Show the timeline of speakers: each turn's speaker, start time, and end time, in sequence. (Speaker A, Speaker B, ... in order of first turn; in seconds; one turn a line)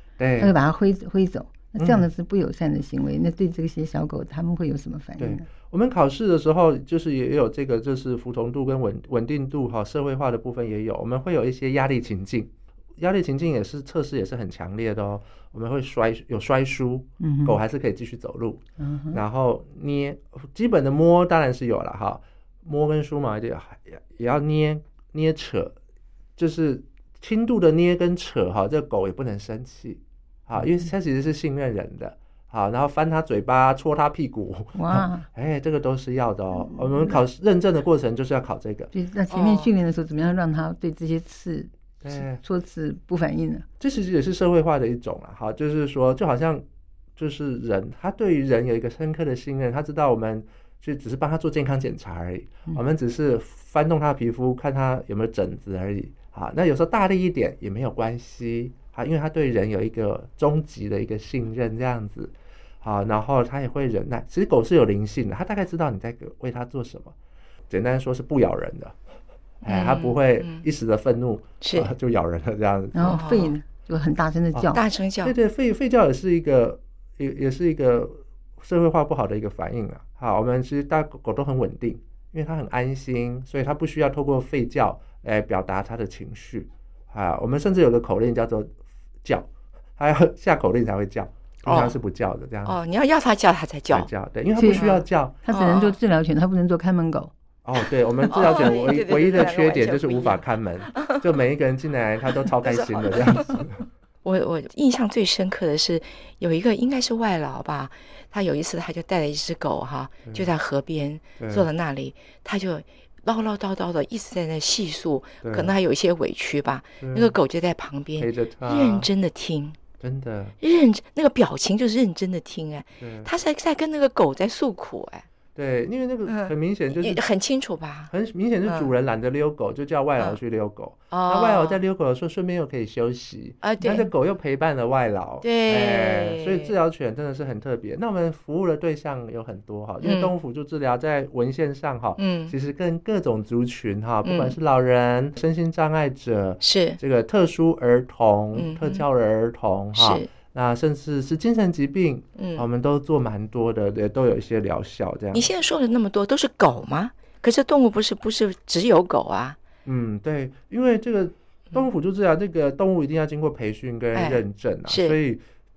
Speaker A: 0.2-0.5
Speaker B: 0.4-5.5
Speaker A: 1.8-2.1
Speaker A: 5.2-25.8
Speaker B: 17.2-17.6
Speaker B: 18.8-19.2
Speaker A: 26.4-38.9
Speaker B: 34.8-35.3
Speaker B: 36.7-37.2
Speaker B: 38.9-43.7
Speaker C: 39.3-39.7
Speaker A: 42.0-42.4
Speaker A: 43.8-46.6
Speaker A: 47.2-67.1
Speaker A: 67.7-69.0
Speaker A: 69.6-73.2
Speaker C: 69.7-70.7
Speaker C: 71.6-71.9
Speaker B: 72.9-74.8
Speaker C: 73.0-73.6
Speaker C: 74.7-75.3
Speaker A: 75.2-92.8
Speaker C: 91.7-92.0
Speaker C: 92.7-94.1
Speaker A: 93.9-95.4
Speaker B: 94.6-97.3
Speaker C: 94.7-96.0
Speaker A: 97.7-103.8
Speaker C: 97.8-101.3
Speaker C: 102.4-103.7
Speaker C: 104.2-119.8
Speaker A: 111.4-111.7
Speaker A: 115.4-115.7
Speaker A: 117.0-117.4
Speaker A: 118.2-119.1
Speaker A: 120.0-120.5
Speaker C: 120.6-125.3
Speaker A: 123.0-123.3
Speaker A: 125.5-127.2
Speaker C: 126.3-128.1
Speaker A: 128.1-155.5
Speaker C: 128.7-128.9
Speaker C: 131.1-131.8
Speaker C: 133.6-134.1
Speaker C: 135.4-136.8
Speaker C: 140.0-140.3
Speaker C: 142.2-142.5
Speaker C: 144.2-144.6
Speaker C: 146.6-147.0
Speaker C: 148.6-149.1
Speaker C: 149.9-150.3
Speaker C: 152.4-152.7
Speaker C: 155.3-159.6
Speaker A: 159.8-165.4
Speaker C: 164.2-165.2